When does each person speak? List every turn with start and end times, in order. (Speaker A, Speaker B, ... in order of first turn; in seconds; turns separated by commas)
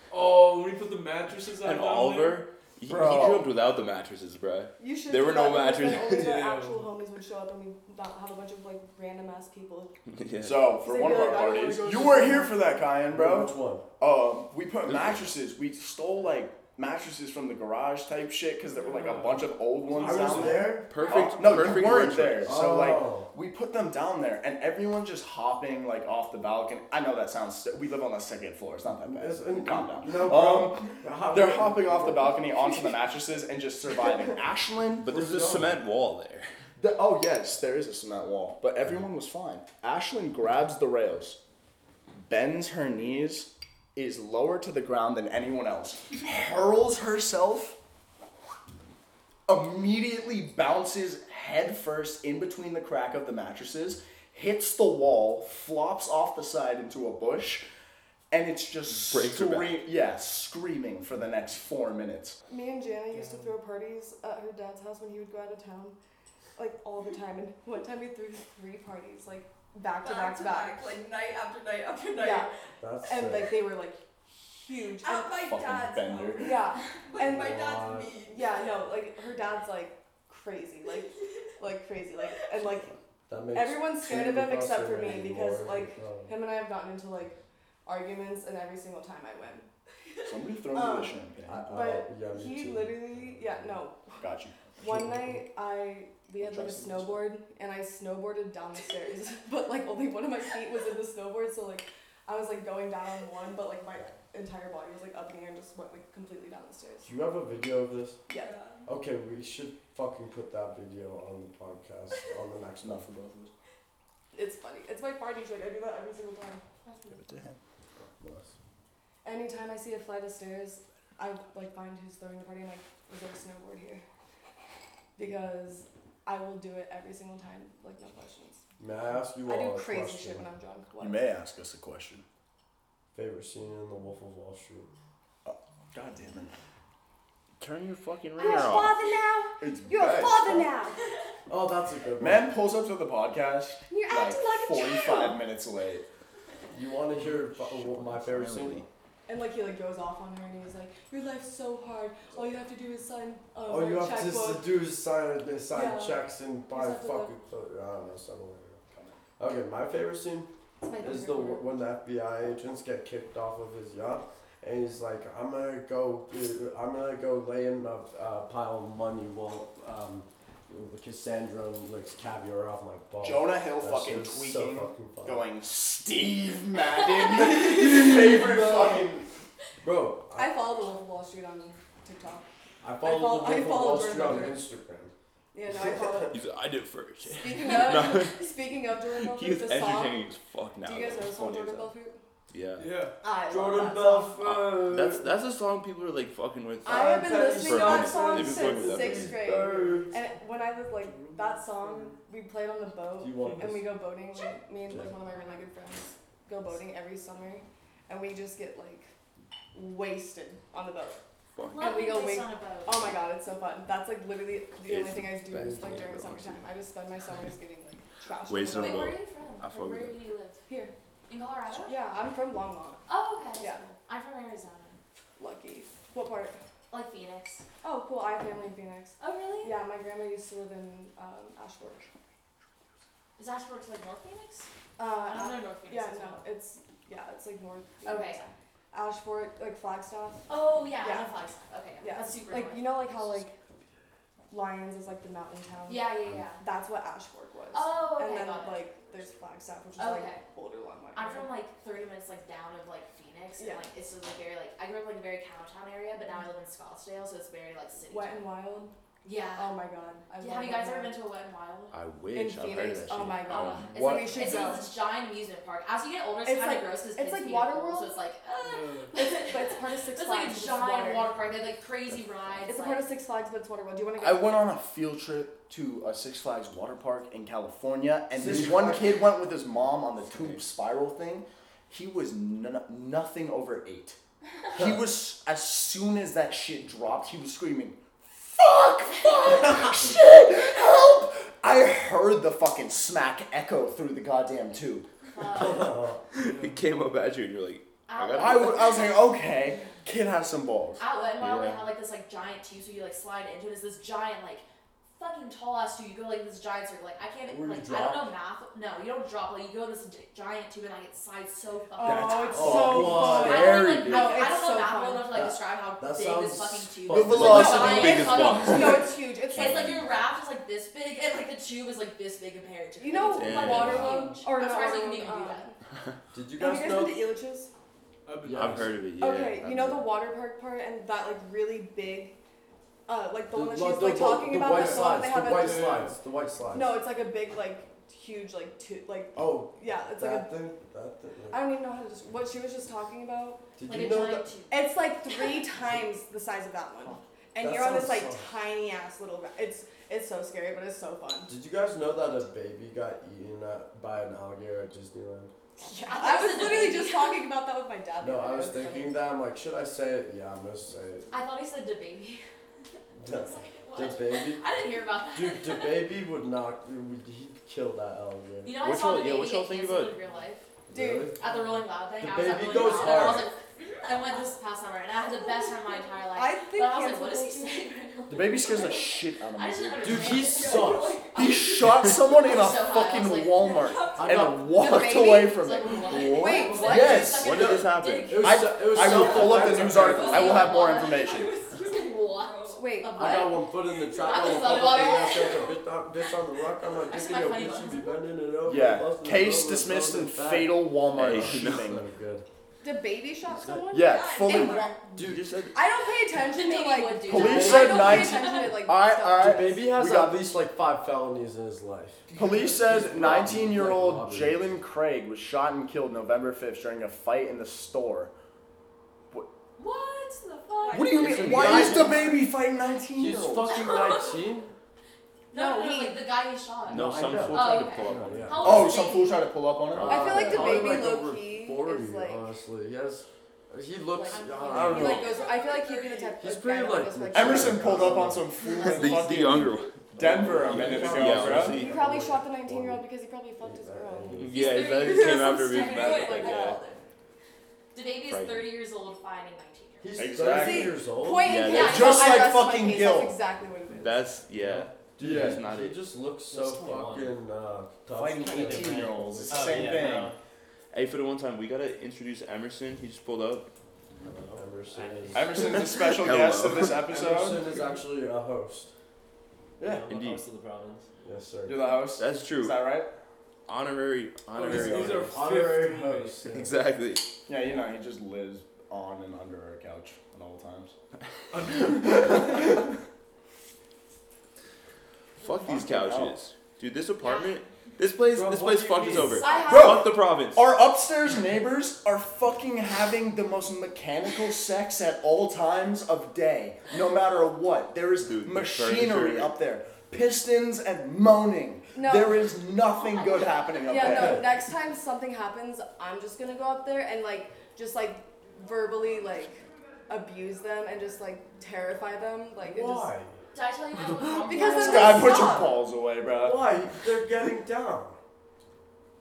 Speaker A: 0.1-2.5, Speaker B: 1.6-6.3, Speaker C: 2.9-3.5, Speaker D: 4.8-9.9, Speaker A: 5.9-6.9, Speaker B: 10.1-10.7, Speaker C: 10.4-35.2, Speaker D: 10.8-12.6, Speaker E: 13.1-13.8, Speaker B: 14.8-15.3, Speaker A: 18.7-20.7, Speaker E: 19.9-20.9, Speaker B: 20.8-22.6, Speaker D: 21.0-21.5, Speaker E: 22.4-23.3, Speaker E: 29.0-32.5, Speaker B: 35.0-36.5, Speaker E: 35.1-35.8, Speaker C: 36.8-41.4, Speaker C: 42.2-47.8, Speaker C: 49.5-57.7, Speaker C: 58.3-62.4, Speaker B: 58.9-59.8, Speaker D: 62.5-66.0, Speaker A: 63.2-63.5, Speaker D: 66.6-71.0, Speaker F: 70.0-72.5, Speaker D: 72.1-72.5, Speaker E: 72.8-73.6, Speaker D: 73.0-74.0, Speaker D: 74.5-75.5, Speaker F: 75.0-79.0, Speaker C: 75.4-76.7, Speaker D: 76.4-77.6, Speaker E: 77.2-78.3, Speaker D: 78.2-83.0, Speaker E: 82.9-86.3, Speaker D: 83.5-89.7, Speaker C: 90.2-91.8, Speaker D: 90.7-91.2, Speaker E: 91.5-93.8, Speaker D: 91.7-94.2, Speaker C: 94.2-94.7, Speaker D: 94.8-107.1, Speaker E: 94.8-95.4, Speaker C: 96.4-97.3, Speaker E: 107.0-108.2, Speaker D: 108.3-108.7, Speaker F: 108.3-108.8, Speaker E: 108.9-113.0, Speaker C: 112.8-113.5, Speaker D: 114.3-116.6, Speaker C: 117.3-117.6, Speaker E: 118.2-118.5, Speaker D: 119.2-124.0, Speaker D: 125.2-128.6, Speaker E: 128.8-130.5, Speaker D: 129.4-131.2, Speaker C: 131.0-132.2, Speaker E: 133.1-134.9, Speaker C: 135.5-136.6, Speaker B: 137.6-139.0, Speaker D: 138.4-141.0, Speaker C: 139.6-140.7, Speaker E: 141.5-142.5, Speaker C: 142.2-146.1, Speaker D: 143.9-145.4, Speaker E: 146.7-148.8, Speaker C: 147.6-148.9, Speaker B: 148.2-148.8, Speaker D: 149.3-154.7, Speaker E: 153.7-158.8, Speaker D: 155.7-157.3, Speaker C: 158.9-159.2, Speaker E: 159.4-175.4, Speaker D: 160.8-161.7, Speaker C: 173.2-179.2, Speaker E: 177.5-179.2, Speaker E: 179.8-180.6, Speaker D: 180.4-182.4, Speaker E: 182.8-185.1, Speaker D: 183.0-184.7, Speaker D: 185.5-186.4, Speaker E: 185.7-186.2, Speaker B: 186.3-188.4, Speaker D: 187.2-190.3, Speaker B: 189.2-191.9, Speaker D: 190.8-192.2, Speaker B: 192.5-192.9, Speaker A: 192.8-193.2, Speaker D: 193.2-194.4, Speaker E: 193.5-195.3, Speaker B: 194.4-200.0, Speaker D: 196.8-209.1, Speaker E: 196.9-200.1, Speaker E: 203.2-203.9, Speaker D: 209.7-211.2, Speaker B: 211.6-211.9, Speaker G: 211.7-213.2, Speaker D: 211.8-219.1, Speaker B: 214.9-216.7, Speaker B: 218.5-220.2, Speaker G: 218.7-220.6, Speaker D: 220.7-220.9, Speaker G: 221.3-222.0, Speaker D: 221.8-223.0, Speaker G: 223.1-225.0, Speaker D: 223.6-223.8, Speaker D: 225.4-226.6, Speaker G: 226.9-227.7, Speaker D: 227.8-232.1, Speaker G: 229.2-229.8, Speaker G: 233.4-234.7, Speaker D: 235.0-241.3, Speaker G: 235.3-236.4, Speaker G: 238.1-238.4, Speaker G: 240.5-242.9, Speaker D: 242.0-243.6, Speaker D: 244.5-251.5, Speaker G: 245.9-246.6, Speaker G: 247.7-248.9, Speaker G: 250.0-250.4, Speaker G: 251.2-258.5, Speaker D: 253.6-253.8, Speaker D: 258.1-258.9, Speaker G: 259.2-259.7, Speaker D: 259.6-261.2, Speaker G: 260.4-261.9, Speaker B: 261.9-264.6, Speaker D: 262.3-264.9, Speaker G: 263.5-273.1, Speaker D: 266.4-268.2, Speaker A: 268.6-269.1, Speaker D: 269.1-271.3, Speaker D: 272.7-274.6, Speaker C: 274.2-284.2, Speaker E: 278.3-279.2, Speaker C: 284.7-295.1, Speaker G: 295.3-296.1, Speaker E: 295.6-296.2, Speaker B: 296.3-299.1, Speaker A: 296.4-297.1, Speaker G: 298.1-299.2, Speaker C: 298.4-301.0, Speaker G: 301.0-304.6, Speaker B: 301.4-301.9, Speaker G: 305.2-325.7, Speaker E: 307.5-308.3, Speaker D: 312.0-315.3, Speaker C: 312.0-314.4, Speaker E: 312.5-313.8, Speaker E: 315.3-318.3, Speaker C: 317.1-318.5, Speaker B: 317.3-320.1, Speaker D: 317.5-320.0, Speaker D: 323.0-325.8, Speaker B: 323.3-324.1, Speaker A: 323.9-324.4, Speaker E: 326.3-327.3, Speaker D: 326.6-327.7, Speaker A: 328.3-329.1, Speaker E: 328.4-328.9, Speaker B: 328.5-330.2, Speaker D: 329.2-332.4, Speaker D: 333.1-336.1, Speaker E: 333.5-337.0, Speaker A: 334.6-336.2, Speaker D: 336.7-340.6, Speaker E: 339.4-341.6, Speaker D: 341.5-343.6, Speaker E: 343.8-344.4, Speaker G: 343.9-344.8, Speaker D: 344.7-351.5, Speaker E: 347.6-348.5, Speaker E: 351.5-355.5, Speaker D: 355.8-359.2, Speaker G: 355.9-357.5, Speaker E: 358.2-361.3, Speaker G: 361.3-362.4, Speaker G: 363.2-366.0, Speaker E: 363.2-364.7, Speaker E: 365.3-368.7, Speaker G: 368.6-370.7, Speaker B: 368.8-370.2, Speaker E: 370.9-371.4, Speaker D: 370.9-371.3, Speaker G: 371.4-379.0, Speaker E: 372.2-373.5, Speaker D: 376.3-377.9, Speaker C: 378.3-380.5, Speaker F: 378.6-379.1, Speaker G: 379.5-381.5, Speaker E: 380.0-381.3, Speaker F: 380.5-382.7, Speaker C: 381.3-387.8, Speaker G: 382.4-383.8, Speaker F: 383.6-384.4, Speaker E: 384.1-384.8, Speaker D: 384.7-385.6, Speaker G: 384.9-395.8, Speaker D: 386.1-387.2, Speaker F: 386.7-386.9, Speaker E: 386.9-390.7, Speaker B: 386.9-388.5, Speaker C: 388.4-391.5, Speaker F: 389.1-392.8, Speaker D: 392.8-393.5, Speaker E: 393.1-402.5, Speaker F: 394.1-394.4, Speaker G: 397.0-398.3, Speaker C: 398.6-402.0, Speaker B: 401.1-402.0, Speaker D: 402.8-404.9, Speaker E: 403.5-404.0, Speaker C: 403.9-405.0, Speaker F: 404.1-405.0, Speaker G: 404.4-404.8, Speaker E: 405.2-405.5, Speaker B: 405.2-405.8, Speaker D: 405.7-409.6, Speaker G: 406.4-408.8, Speaker C: 407.3-410.4, Speaker E: 407.3-408.3, Speaker E: 409.4-412.2, Speaker A: 412.3-413.0, Speaker C: 412.3-418.3, Speaker E: 412.9-414.8, Speaker G: 419.8-421.9, Speaker F: 420.9-422.3, Speaker C: 420.9-423.7, Speaker E: 421.2-422.2, Speaker B: 421.5-422.0, Speaker E: 423.1-424.7, Speaker G: 423.7-424.4, Speaker G: 425.5-429.5, Speaker D: 425.5-426.2, Speaker B: 426.9-429.0, Speaker E: 426.9-428.9, Speaker C: 428.6-430.9, Speaker E: 429.9-435.4, Speaker D: 430.1-432.5, Speaker D: 434.2-438.3, Speaker G: 434.2-436.3, Speaker F: 435.5-436.2, Speaker E: 436.4-438.5, Speaker C: 437.3-441.8, Speaker B: 438.8-441.9, Speaker E: 440.2-443.1, Speaker D: 441.8-446.8, Speaker E: 443.6-444.8, Speaker B: 444.3-446.8, Speaker G: 444.5-446.8, Speaker F: 446.3-447.0, Speaker G: 447.9-450.1, Speaker B: 448.3-448.7, Speaker E: 450.0-451.6, Speaker C: 450.2-450.9, Speaker B: 450.4-450.8, Speaker D: 450.5-454.3, Speaker B: 451.4-452.3, Speaker G: 451.7-452.4, Speaker C: 451.7-453.4, Speaker B: 454.0-456.0, Speaker E: 454.6-460.2, Speaker C: 455.2-455.6, Speaker H: 456.5-457.4, Speaker C: 458.1-460.3, Speaker H: 458.3-460.4, Speaker B: 460.9-463.7, Speaker E: 464.2-465.6, Speaker H: 464.9-465.9, Speaker C: 465.3-467.6, Speaker B: 465.9-467.1, Speaker E: 467.1-468.9, Speaker H: 469.8-471.1, Speaker B: 470.1-470.4, Speaker E: 471.2-471.9, Speaker C: 471.7-473.1, Speaker B: 472.2-472.8, Speaker B: 473.7-475.3, Speaker A: 474.6-476.4, Speaker E: 474.6-476.8, Speaker B: 476.5-477.3, Speaker C: 477.5-480.9, Speaker A: 481.5-482.5, Speaker C: 481.8-482.9, Speaker B: 485.4-490.7, Speaker C: 485.4-486.4, Speaker G: 487.2-487.5, Speaker E: 488.3-489.4, Speaker G: 489.2-490.0, Speaker D: 489.4-490.0, Speaker C: 489.7-504.5, Speaker B: 498.2-499.6, Speaker D: 501.9-502.4, Speaker G: 503.0-504.1, Speaker D: 503.9-513.1, Speaker E: 504.0-504.5, Speaker E: 512.6-513.4, Speaker G: 513.5-515.7, Speaker D: 514.4-515.8, Speaker C: 514.7-516.6, Speaker E: 516.4-518.2